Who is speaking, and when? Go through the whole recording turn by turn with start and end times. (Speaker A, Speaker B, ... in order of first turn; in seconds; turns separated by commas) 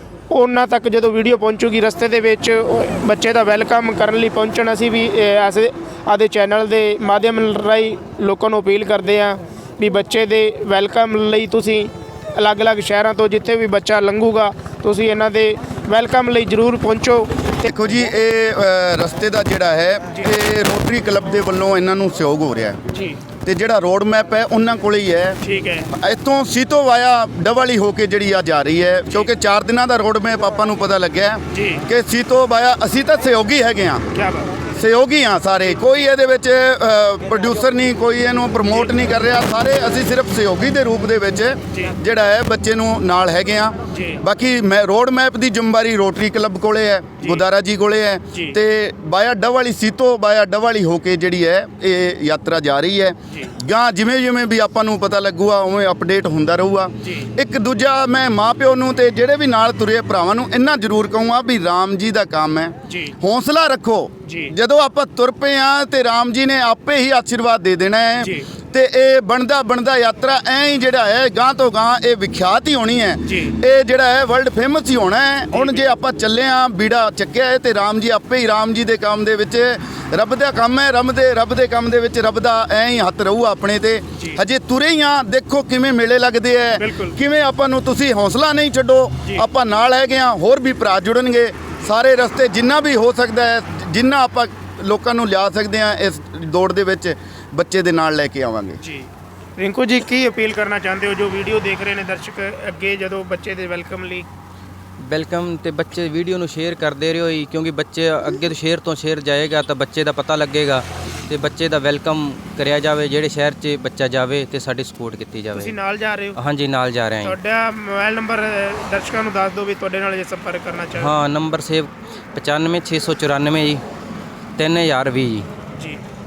Speaker A: 0.3-17.7, Speaker B: 17.7-22.8, Speaker A: 22.9-23.2, Speaker B: 23.4-25.4, Speaker A: 25.4-25.9, Speaker B: 25.9-34.0, Speaker A: 31.5-31.8, Speaker A: 34.1-34.5, Speaker B: 34.7-98.8, Speaker A: 38.7-38.9, Speaker A: 43.9-44.2, Speaker A: 47.2-47.4, Speaker A: 48.3-48.6, Speaker A: 57.0-57.3, Speaker A: 62.9-63.1, Speaker A: 64.2-64.5, Speaker A: 68.2-68.5, Speaker A: 73.2-73.5, Speaker A: 75.5-75.8, Speaker A: 84.2-84.4, Speaker A: 86.8-87.2, Speaker A: 98.8-104.3, Speaker C: 105.0-115.7, Speaker A: 115.5-116.4, Speaker C: 116.3-117.3, Speaker A: 117.2-121.2, Speaker C: 121.0-123.8, Speaker C: 124.6-125.5